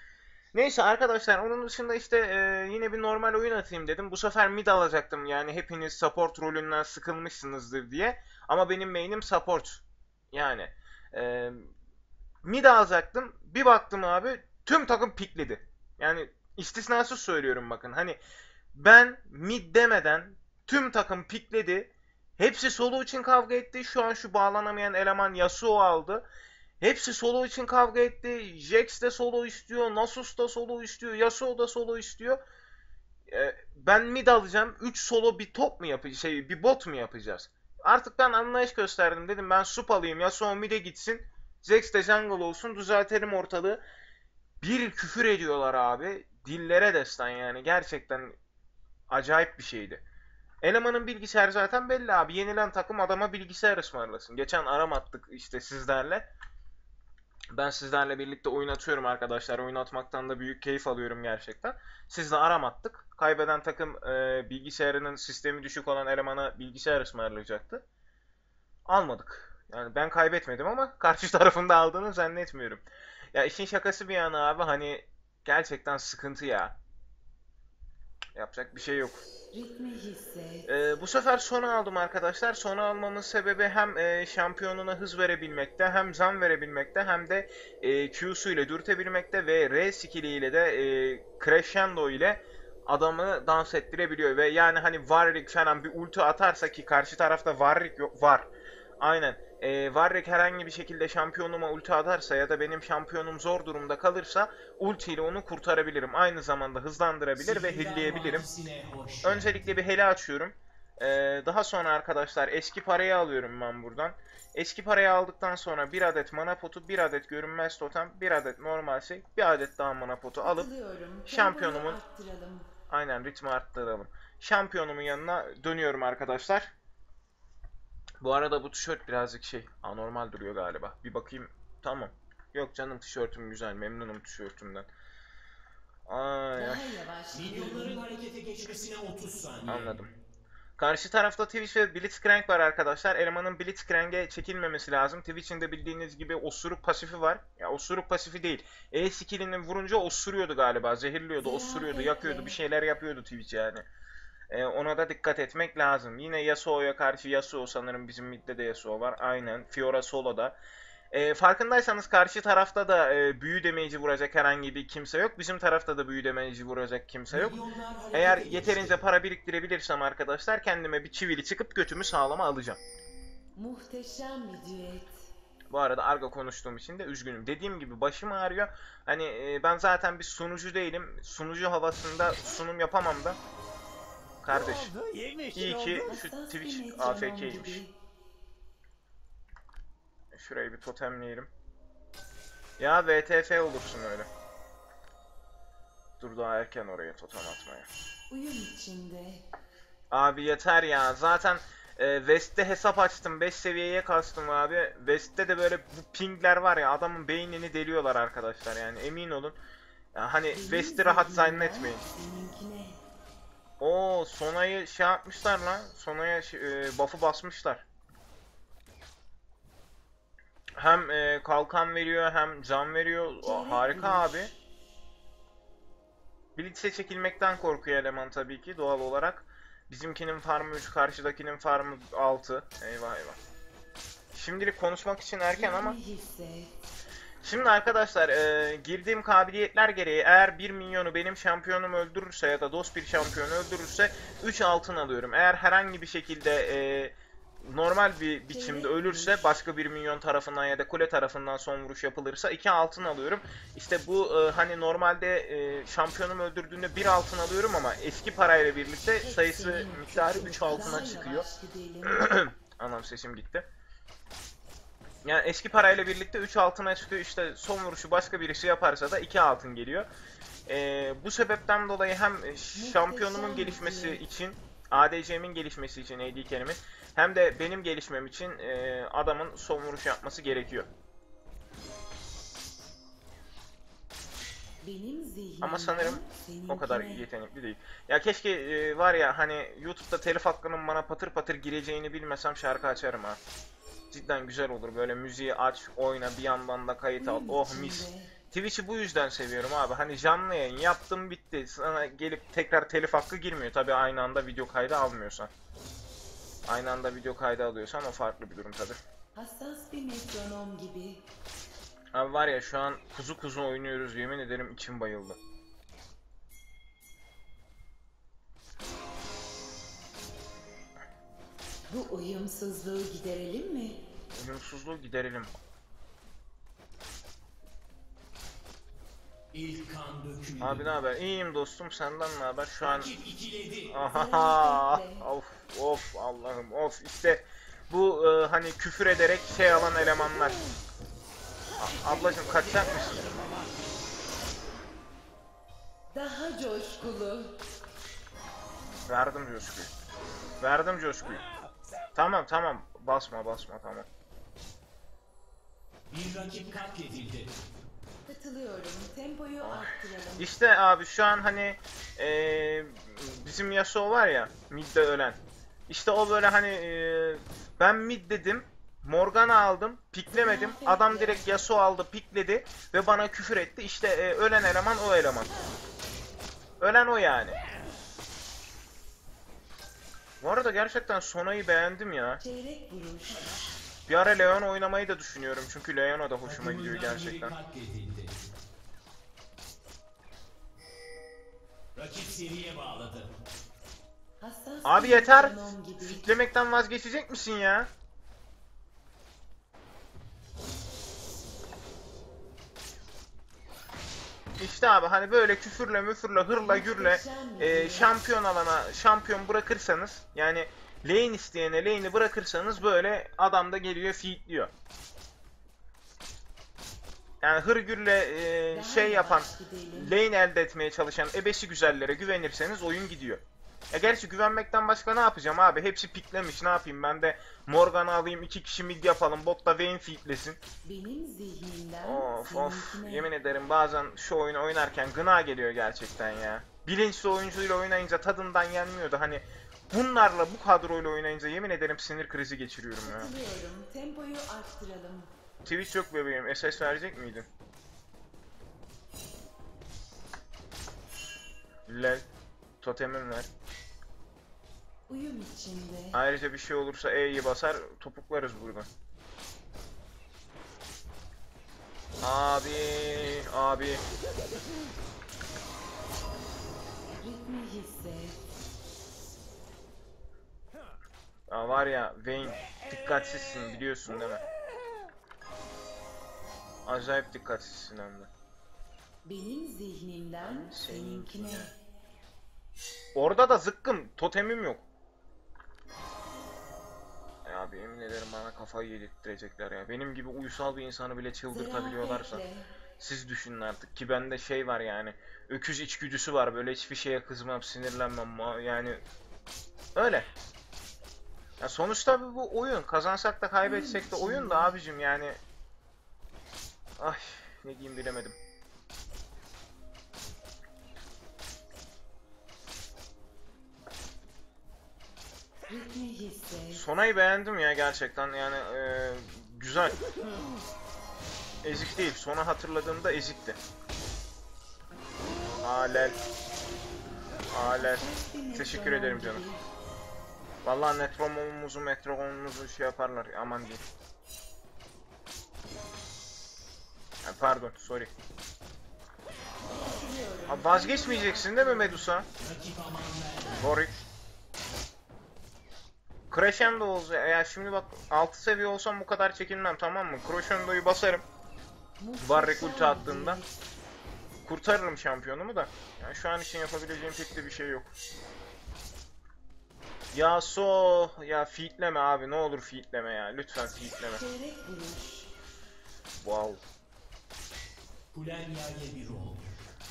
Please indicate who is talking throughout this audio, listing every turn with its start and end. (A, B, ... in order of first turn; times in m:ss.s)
0:00.5-0:11.7 A
0:12.4-0:18.2 A
0:18.7-0:26.2 A
0:26.8-0:32.4 A
0:33.3-0:43.8 A
0:44.6-0:48.3 A
0:49.1-0:50.0 A
0:50.6-0:56.3 A
0:57.5-1:07.8 A
1:08.9-1:16.8 A
1:18.4-1:19.2 A
1:19.5-1:20.7 B
1:20.7-1:38.5 A
1:39.0-1:48.4 A
1:47.4-1:49.7 C
1:49.2-2:00.7 A
2:00.4-2:02.7 B
2:01.3-2:02.0 A
2:02.9-2:06.7 A
2:08.2-2:14.9 A
2:16.1-2:17.0 A
2:16.6-2:18.1 B
2:17.3-2:20.0 C
2:19.7-2:20.1 A
2:20.8-2:33.8 A
2:31.4-2:32.6 B
2:34.5-2:40.6 A
2:41.1-2:47.6 A
2:47.3-2:49.0 C
2:48.1-2:52.8 A
2:53.5-2:55.2 B
2:55.7-3:03.4 A
3:04.4-3:05.0 A
3:05.5-3:07.8 A
3:06.0-3:07.9 B
3:10.3-3:11.5 A
3:12.8-3:14.3 A
3:16.2-3:17.9 A
3:18.3-3:19.4 B
3:20.1-3:29.6 A
3:30.1-3:32.0 A
3:30.5-3:33.0 B
3:33.8-3:37.8 A
3:40.8-3:44.5 A
3:43.4-3:44.6 B
3:46.6-3:53.4 A
3:54.3-3:56.0 A
3:55.6-3:56.8 B
3:57.4-4:21.5 A
4:08.5-4:09.4 B
4:19.2-4:22.4 B
4:22.0-4:23.7 A
4:25.2-4:30.1 A
4:30.7-4:40.9 A
4:32.8-4:34.2 B
4:44.8-4:47.3 B
4:45.6-4:53.4 A
4:54.1-5:05.5 A
4:57.2-4:58.3 B
5:06.7-5:09.0 A
5:09.4-5:11.2 B
5:12.1-5:15.4 A
5:21.9-5:24.0 B
5:24.3-5:25.5 A
5:29.5-5:30.9 C
5:30.6-5:33.1 A
5:32.8-5:33.9 C
5:33.9-5:40.6 A
5:34.1-5:35.3 B
5:41.8-5:43.5 A
5:46.1-5:47.6 B
5:49.0-5:49.9 A
5:50.6-5:51.4 A
5:52.1-5:54.0 A
5:56.1-5:57.6 C
5:58.2-6:00.5 B
5:59.6-6:15.5 A
6:10.3-6:11.6 B
6:16.8-6:17.6 A
6:20.4-6:22.4 A
6:22.4-6:23.4 B
6:24.1-6:27.5 A
6:26.4-6:28.4 C
6:32.0-6:33.3 C
6:34.4-6:36.3 B
6:34.8-6:37.9 A
6:44.6-6:54.7 A
6:46.6-6:48.1 B
6:57.4-7:10.6 A
6:58.7-7:00.2 B
7:10.8-7:13.3 B
7:12.0-7:23.3 A
7:23.0-7:25.3 B
7:25.6-7:27.5 A
7:31.9-7:32.2 A
7:32.8-7:33.5 A
7:35.1-7:36.2 B
7:36.1-7:38.9 A
7:42.2-7:44.0 A
7:47.2-7:48.4 B
7:51.5-7:54.4 A
7:56.9-7:58.3 A
7:59.2-8:01.7 B
8:00.4-8:01.7 A
8:03.1-8:04.8 A
8:07.5-8:12.4 A
8:11.5-8:12.7 B
8:13.0-8:19.0 A
8:20.0-8:20.3 A
8:21.6-8:25.4 A
8:23.6-8:24.8 B
8:27.0-8:28.4 A
8:35.7-8:36.8 B
8:36.7-8:40.0 A
8:41.6-8:43.6 A
8:45.6-8:46.2 A
8:47.5-8:49.4 A
8:47.6-8:49.6 B
8:50.6-8:53.8 A
8:57.2-8:58.1 A
8:59.7-9:02.1 B
9:00.5-9:02.3 A
9:02.4-9:03.7 C
9:03.6-9:03.9 A
9:06.3-9:11.2 A
9:12.0-9:13.5 B
9:12.2-9:13.4 A
9:14.5-9:17.9 A
9:20.1-9:24.2 A
9:24.2-9:25.3 B
9:26.2-9:26.6 A
9:28.1-9:29.6 C